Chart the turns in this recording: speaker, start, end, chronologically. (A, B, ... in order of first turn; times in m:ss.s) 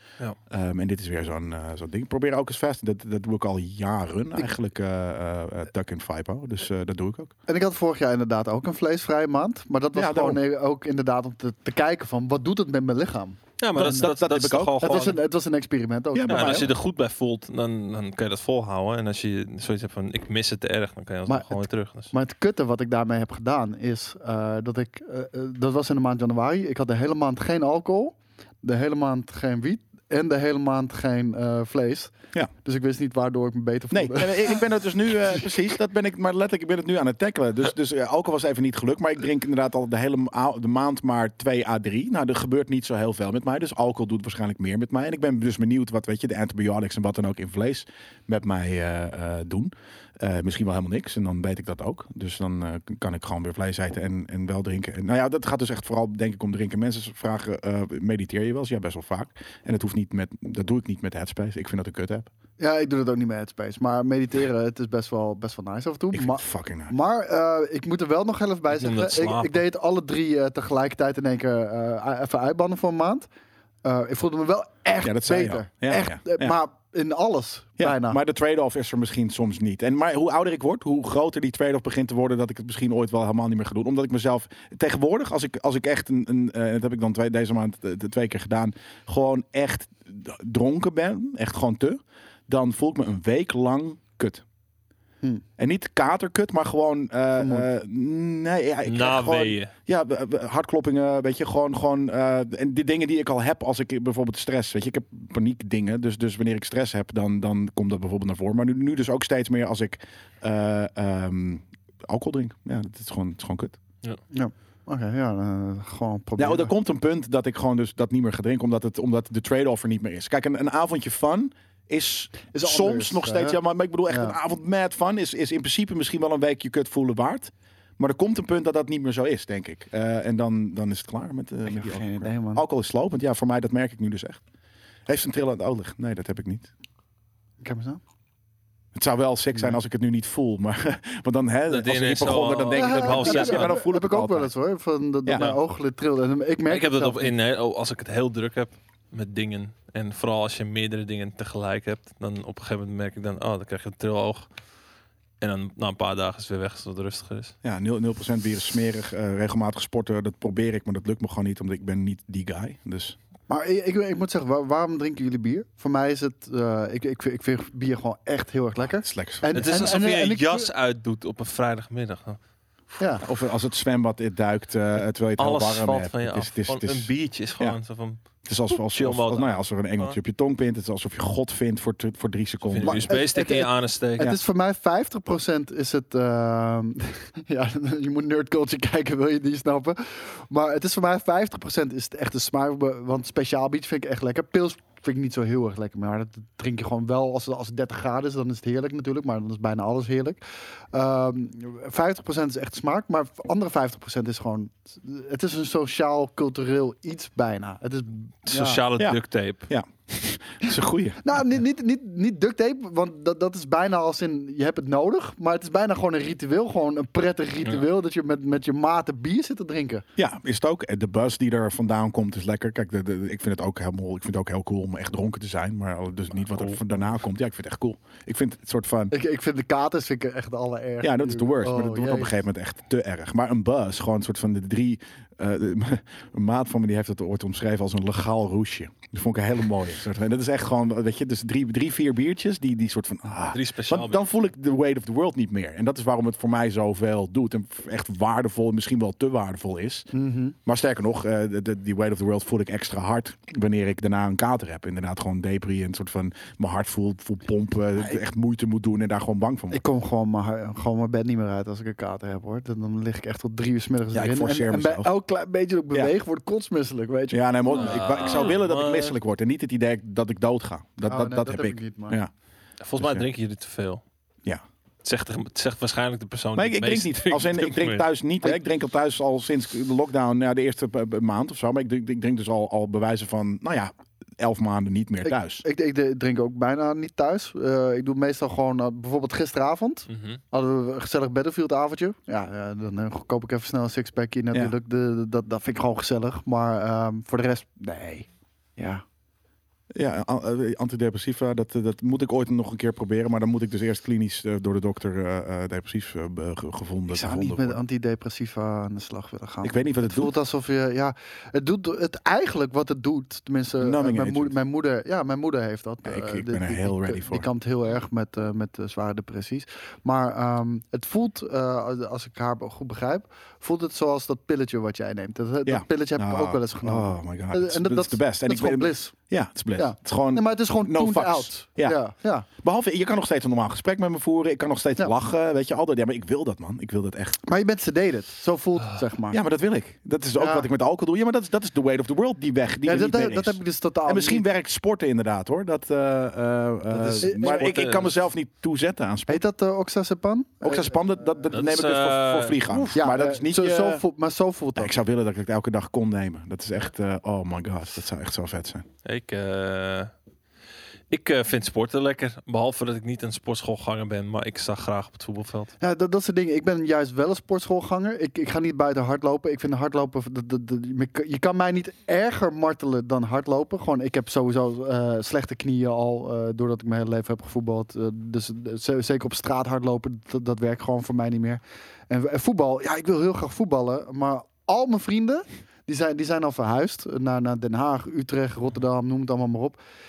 0:00.5-0:07.3 A
0:07.5-0:14.1 B
0:09.9-0:10.4 A
0:13.6-0:15.2 C
0:13.8-0:15.2 A
0:14.8-0:16.7 B
0:16.1-0:16.7 A
0:16.3-0:22.1 C
0:21.3-0:34.7 B
0:33.9-1:02.3 A
1:02.6-1:13.3 B
1:06.1-1:06.9 A
1:08.7-1:09.6 C
1:13.8-1:18.2 B
1:15.0-1:16.6 A
1:17.8-1:34.4 A
1:35.6-1:53.8 A
1:37.4-1:37.7 B
1:38.9-1:39.7 C
1:54.3-1:56.7 B
1:56.4-2:14.4 A
2:02.5-2:04.4 B
2:11.7-2:12.6 B
2:15.1-2:16.7 A
2:17.6-2:18.0 B
2:19.0-2:24.5 A
2:21.7-2:23.8 C
2:22.7-2:27.4 B
2:26.7-2:34.5 C
2:35.4-2:37.5 C
2:37.6-2:43.2 A
2:43.5-2:50.7 B
2:48.8-2:49.9 A
2:49.5-2:52.4 C
2:53.2-2:57.8 A
2:55.4-3:00.2 C
2:58.4-3:03.1 A
3:02.7-3:04.3 C
3:02.8-3:20.4 B
3:20.9-3:28.8 B
3:28.5-3:29.7 C
3:29.0-3:31.2 A
3:31.2-3:40.0 B
3:40.2-3:49.1 A
3:49.1-3:52.3 B
3:51.0-4:10.1 A
4:03.5-4:04.2 C
4:10.1-4:10.6 B
4:10.7-4:19.8 A
4:19.7-4:28.5 B
4:24.1-4:25.1 A
4:27.3-4:32.3 A
4:27.7-4:29.1 C
4:31.1-4:32.2 B
4:32.8-4:34.0 C
4:33.0-4:33.2 A
4:35.0-4:38.1 C
4:36.6-4:45.6 A
4:45.2-4:59.0 B
4:50.1-4:50.4 C
5:00.0-5:07.8 A
5:07.1-5:29.2 B
5:09.6-5:10.3 A
5:13.8-5:14.6 A
5:16.0-5:17.5 A
5:25.7-5:32.0 A
5:29.8-5:32.5 B
5:32.6-5:37.4 A
5:37.5-5:39.4 B
5:39.3-5:49.4 A
5:40.4-5:40.7 B
5:42.8-5:44.4 B
5:46.9-5:48.1 C
5:47.2-5:47.7 B
5:49.3-5:51.1 B
5:50.6-5:54.0 A
5:51.5-5:52.9 C
5:52.9-5:55.0 B
5:54.8-5:58.8 A
5:59.0-6:00.1 C
6:01.1-6:05.7 C
6:05.8-6:29.8 B